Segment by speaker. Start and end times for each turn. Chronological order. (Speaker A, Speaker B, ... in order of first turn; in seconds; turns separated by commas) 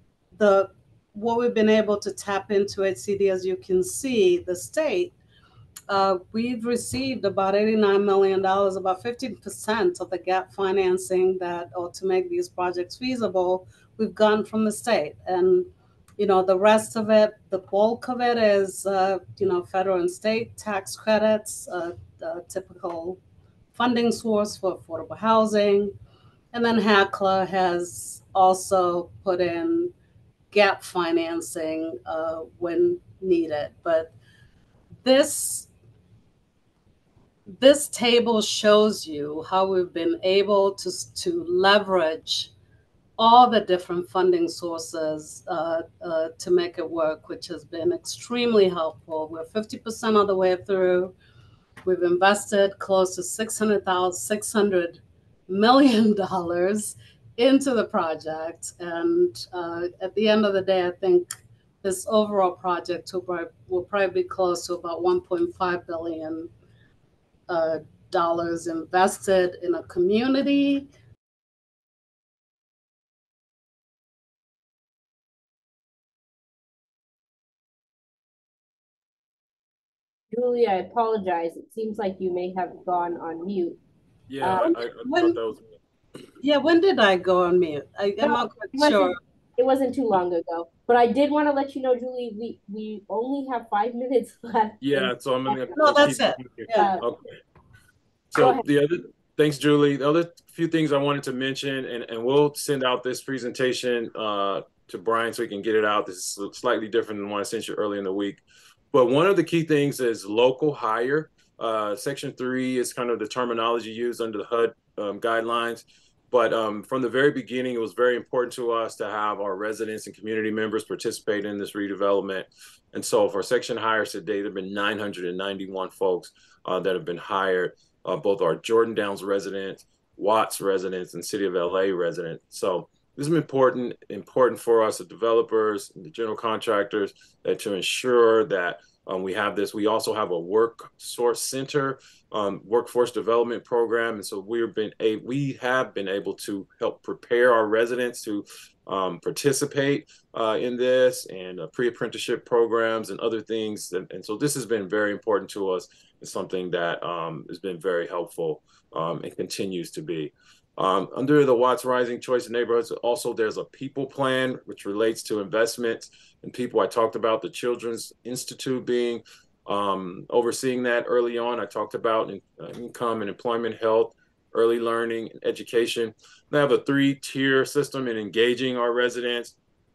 Speaker A: 0.3-5.1, Speaker A: 5.9-23.2, Speaker A: 23.7-25.9, Speaker A: 26.5-29.9, Speaker A: 30.5-34.1, Speaker A: 35.0-35.7, Speaker A: 37.5-42.5, Speaker A: 43.2-51.1, Speaker A: 51.8-66.5, Speaker A: 67.5-70.9, Speaker B: 80.3-83.8, Speaker C: 84.3-85.7, Speaker B: 84.4-84.8, Speaker A: 84.5-85.4, Speaker A: 86.4-89.2, Speaker B: 88.2-96.1, Speaker C: 94.8-97.2, Speaker A: 95.7-97.0, Speaker B: 96.7-97.0, Speaker C: 98.3-179.6, Speaker B: 98.4-98.7